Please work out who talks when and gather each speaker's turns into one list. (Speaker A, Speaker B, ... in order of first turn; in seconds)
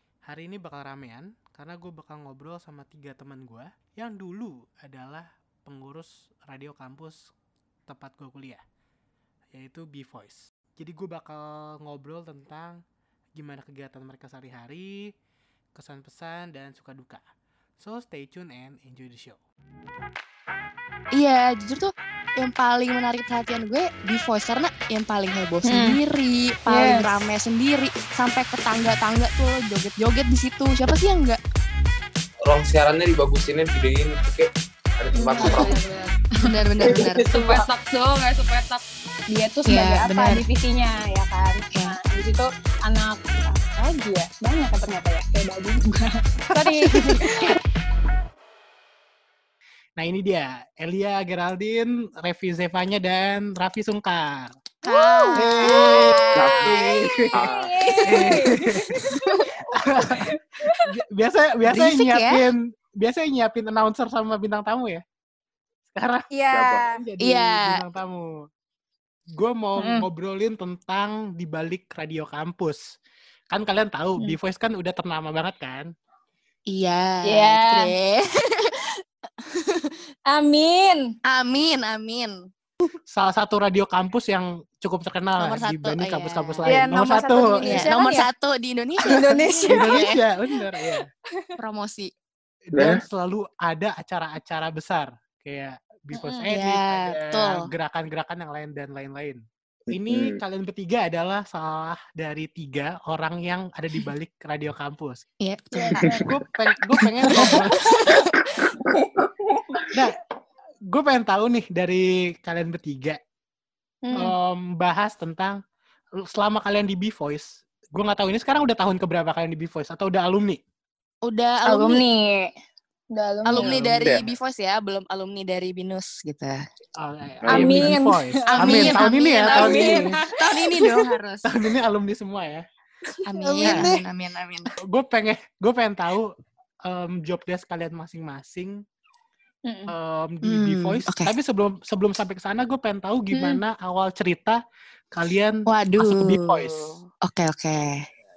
Speaker A: 0.3-7.3, 7.9-8.6, 9.5-12.8, 13.3-15.1, 15.7-17.2, 17.8-19.4, 46.6-47.2, 50.0-54.6, 55.3-57.4, 58.0-59.1, 59.8-60.3, 60.8-65.0, 65.9-66.3, 67.0-68.5, 69.3-72.9, 73.5-75.9, 83.1-87.9, 89.7-91.1, 92.7-105.2, 106.1-107.8, 109.9-110.2, 110.9-113.2, 114.1-115.6, 116.2-120.6, 123.6-124.0, 127.0-130.2, 131.4-132.6, 134.8-136.3, 136.8-138.8, 139.9-144.6, 145.1-147.0
Speaker B: 21.1-31.4, 35.4-35.7, 36.4-37.3, 39.6-40.5, 41.7-42.0, 54.8-56.7, 61.6-62.4, 67.2-67.8, 76.7-78.8, 79.4-79.9, 81.3-82.5, 85.4-86.6, 87.6-90.2, 91.6-92.1, 96.5-97.7, 105.4-106.2, 107.2-108.3, 121.2-122.0, 123.4-126.6, 128.5-131.5, 133.2-134.7, 140.4-141.3, 145.7-148.0
Speaker C: 25.6-26.0, 26.7-27.1, 35.1-47.5, 54.9-56.1, 56.7-60.8, 66.3-66.9, 69.8-70.0, 77.3-77.9, 80.3-81.0, 86.6-88.3, 89.0-90.1, 90.8-91.5, 96.1-96.5, 105.8-106.2, 114.0-114.3, 121.7-122.5, 123.1-123.8, 127.5-131.0, 133.2-134.0, 139.6-139.9, 143.3-143.6
Speaker D: 32.4-35.8, 36.8-37.7, 56.3-57.9, 66.5-66.8, 92.8-93.0, 100.1-100.4, 108.5-109.1, 123.7-124.3, 127.4-127.9